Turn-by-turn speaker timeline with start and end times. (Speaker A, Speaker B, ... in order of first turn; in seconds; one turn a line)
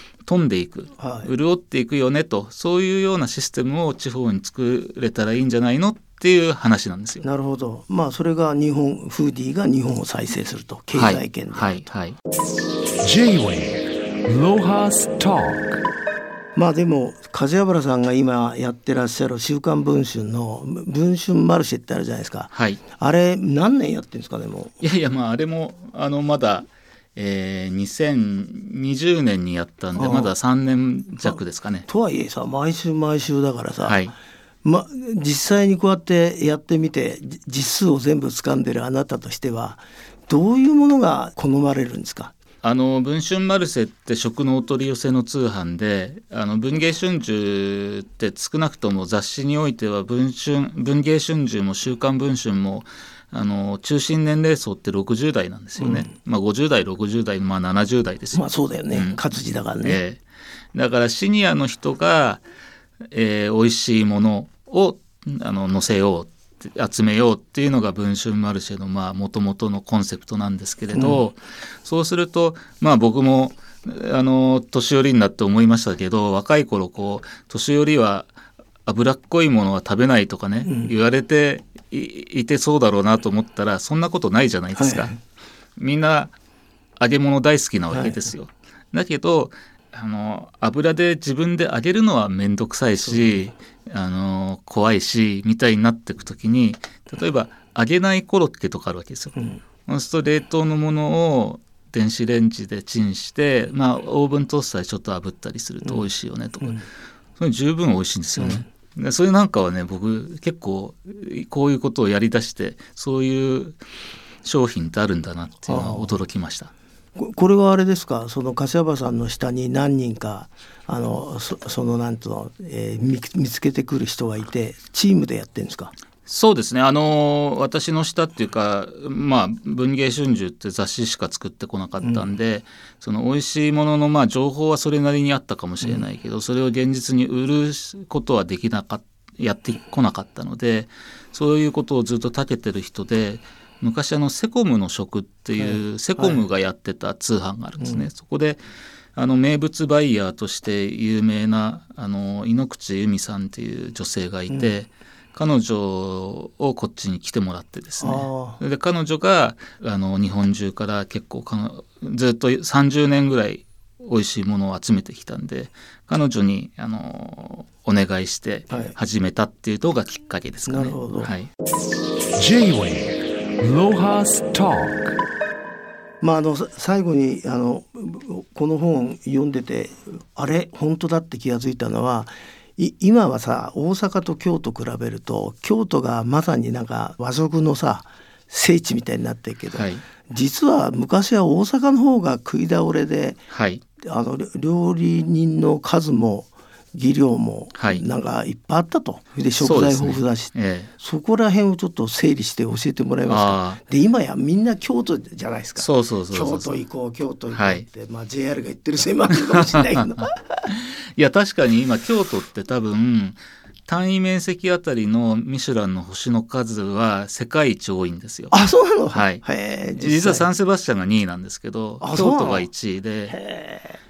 Speaker A: 0.2-7.2
Speaker B: 1.0-1.3
Speaker B: 7.2-11.8
Speaker A: 10.9-12.2
Speaker C: 13.0-15.7
Speaker B: 16.5-24.7
Speaker A: 22.5-22.8
Speaker A: 24.8-31.9
Speaker B: 29.9-30.3
Speaker B: 31.2-34.1
Speaker A: 33.8-34.1
Speaker B: 34.6-42.3
Speaker A: 42.6-59.2
Speaker B: 55.8-56.1
Speaker B: 58.3-60.0
Speaker A: 59.8-60.2
Speaker A: 60.7-62.4
Speaker A: 63.1-78.3
Speaker B: 70.9-71.2
Speaker A: 78.8-85.1
Speaker B: 80.6-80.9
Speaker B: 84.8-85.2
Speaker A: 85.8-86.3
Speaker A: 87.0-106.8
Speaker B: 87.9-88.2
Speaker B: 93.0-93.5
Speaker B: 99.3-99.6
Speaker A: 107.4-113.8
Speaker B: 108.4-108.6
Speaker A: 114.4-116.7
Speaker B: 115.7-116.2
Speaker B: 117.2-125.9
Speaker A: 126.2-148.6
Speaker B: 145.6-146.5
Speaker B: 147.8-148.1
Speaker A: 149.1-171.5
Speaker B: 158.0-158.6
Speaker B: 168.7-168.9
Speaker B: 170.7-171.3
Speaker C: 172.3-175.0
Speaker B: 176.2-193.4
Speaker A: 189.7-190.0
Speaker A: 193.5-193.8
Speaker B: 194.0-210.4
Speaker A: 197.8-198.0
Speaker A: 199.6-200.9
Speaker A: 203.2-203.8
Speaker A: 205.8-206.7
Speaker A: 207.5-207.8
Speaker A: 209.3-209.9
Speaker A: 210.7-218.5
Speaker B: 218.5-220.5
Speaker A: 219.1-219.4
Speaker A: 220.0-223.4
Speaker B: 222.0-222.7
Speaker B: 223.3-224.0